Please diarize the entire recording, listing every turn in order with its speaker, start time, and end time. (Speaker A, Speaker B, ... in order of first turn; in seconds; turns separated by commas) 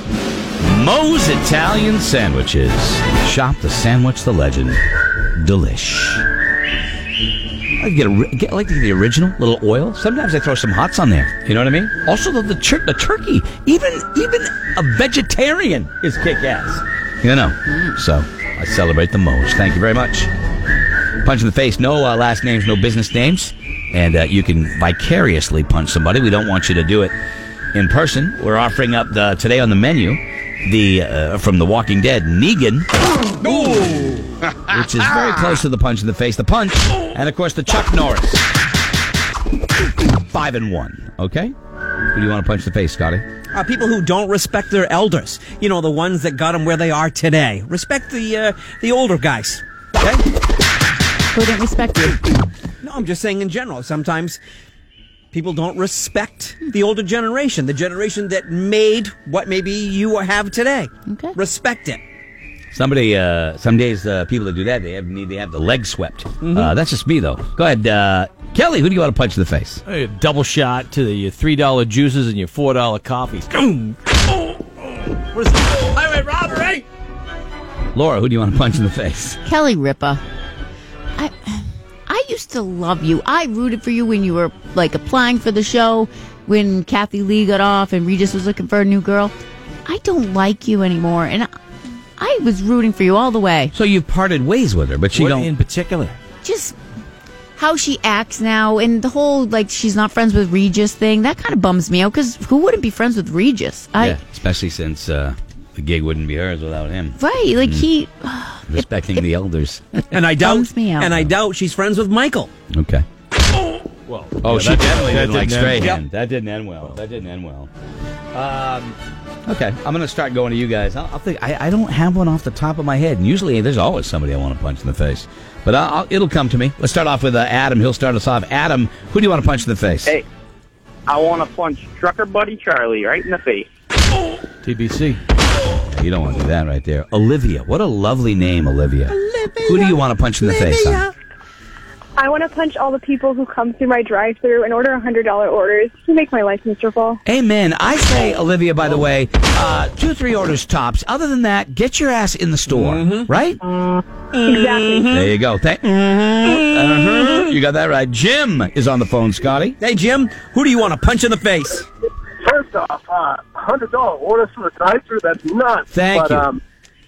Speaker A: 0.6-4.8, Speaker A: 5.4-6.3, Speaker A: 7.8-20.3, Speaker A: 21.2-27.1, Speaker A: 27.7-32.9, Speaker B: 33.4-34.3, Speaker A: 34.7-38.5, Speaker A: 40.2-41.5, Speaker A: 42.1-43.2, Speaker B: 43.5-50.2, Speaker C: 51.3-52.3, Speaker B: 52.8-54.4, Speaker B: 55.3-62.0, Speaker C: 61.1-61.4, Speaker A: 62.7-69.8, Speaker D: 69.9-74.0, Speaker D: 75.3-76.8, Speaker A: 78.0-79.4, Speaker C: 79.5-80.2, Speaker C: 81.2-89.3, Speaker C: 89.8-91.5, Speaker C: 92.2-93.7, Speaker A: 93.7-95.5, Speaker D: 95.2-96.1, Speaker C: 96.4-96.8, Speaker C: 97.6-104.2, Speaker A: 104.0-107.9, Speaker C: 107.2-109.2, Speaker A: 108.7-110.0, Speaker C: 110.0-111.1, Speaker B: 110.1-112.5, Speaker A: 112.7-113.0, Speaker D: 114.1-116.0, Speaker A: 114.4-117.7, Speaker A: 118.3-130.1, Speaker E: 131.1-133.7, Speaker D: 134.7-135.2, Speaker A: 135.9-141.1, Speaker B: 139.3-139.9, Speaker B: 140.5-141.0, Speaker F: 142.2-147.2, Speaker A: 147.3-153.6, Speaker B: 152.8-153.3, Speaker F: 154.4-155.1, Speaker B: 154.5-155.2, Speaker A: 155.1-159.8, Speaker B: 159.8-161.8, Speaker G: 162.4-166.6, Speaker A: 165.9-166.5